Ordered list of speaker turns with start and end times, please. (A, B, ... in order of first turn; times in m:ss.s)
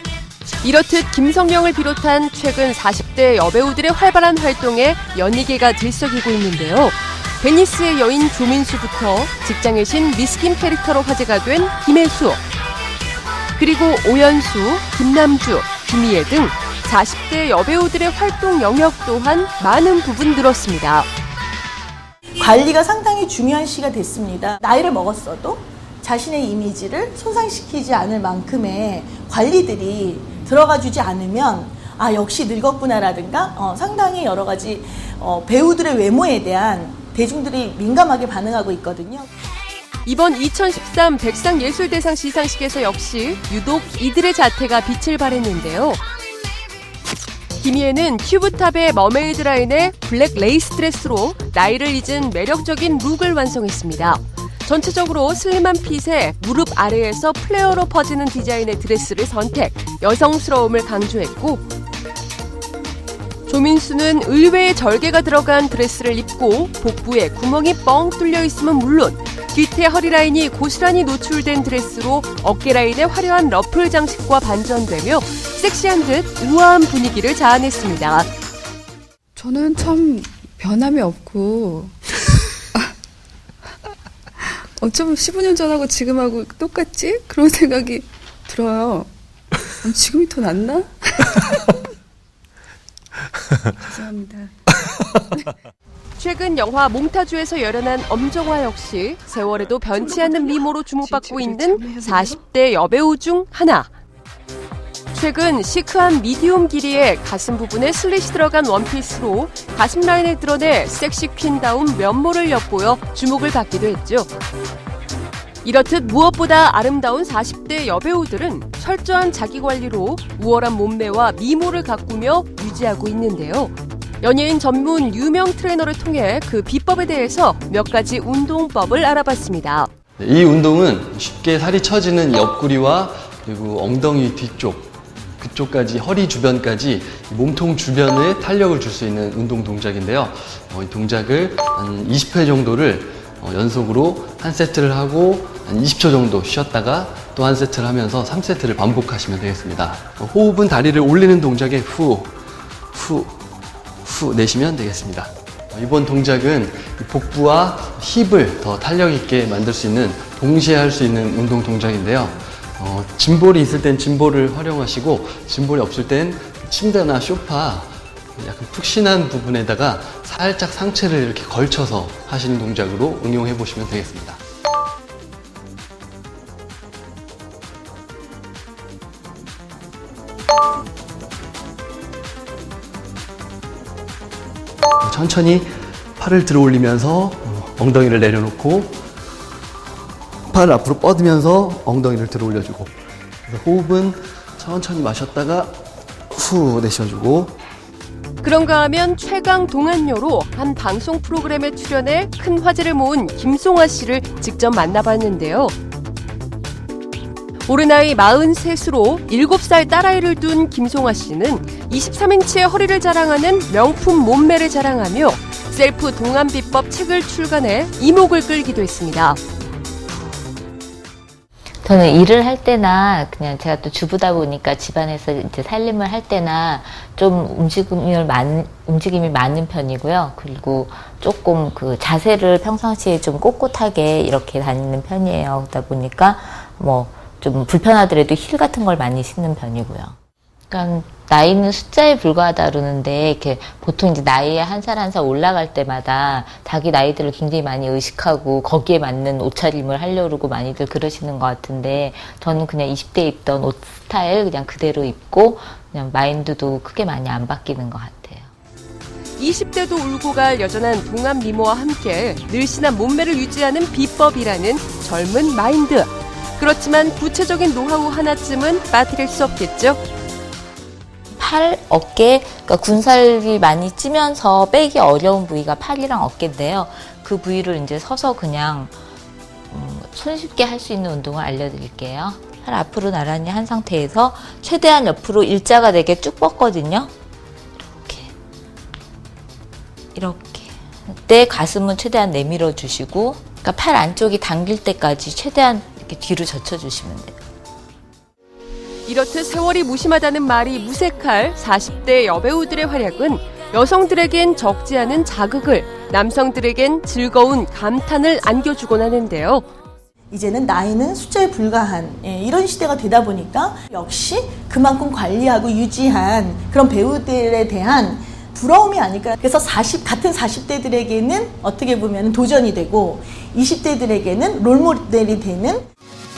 0:00.6-0:12.4 A
0:13.6-0:21.1 A
0:22.4-0:39.3 B
0:40.0-0:46.0 A
0:47.6-1:01.6 A
1:03.5-1:18.3 A
1:19.4-1:21.9 C
1:24.8-1:29.1 C
1:29.8-1:31.4 C
1:33.8-1:34.5 C
1:36.2-1:43.9 A
1:41.0-1:42.2 C
1:45.1-1:54.3 A
1:55.6-2:09.9 A
2:10.2-2:32.4 D
2:32.9-2:33.3 D
2:34.0-2:54.4 D
3:05.0-3:09.0 D
3:10.5-3:12.9 D
3:13.4-3:15.8 D
3:16.3-3:17.6 D
3:18.4-3:25.7 A
3:27.6-3:39.4 A
3:41.8-4:00.2 E
4:00.7-4:18.5 E
4:19.4-4:30.0 A
4:31.4-4:38.9 E
4:39.7-4:47.1 E
4:47.8-4:48.3 E
4:50.1-4:57.4 E
4:59.0-5:09.6 A
5:10.3-5:25.8 B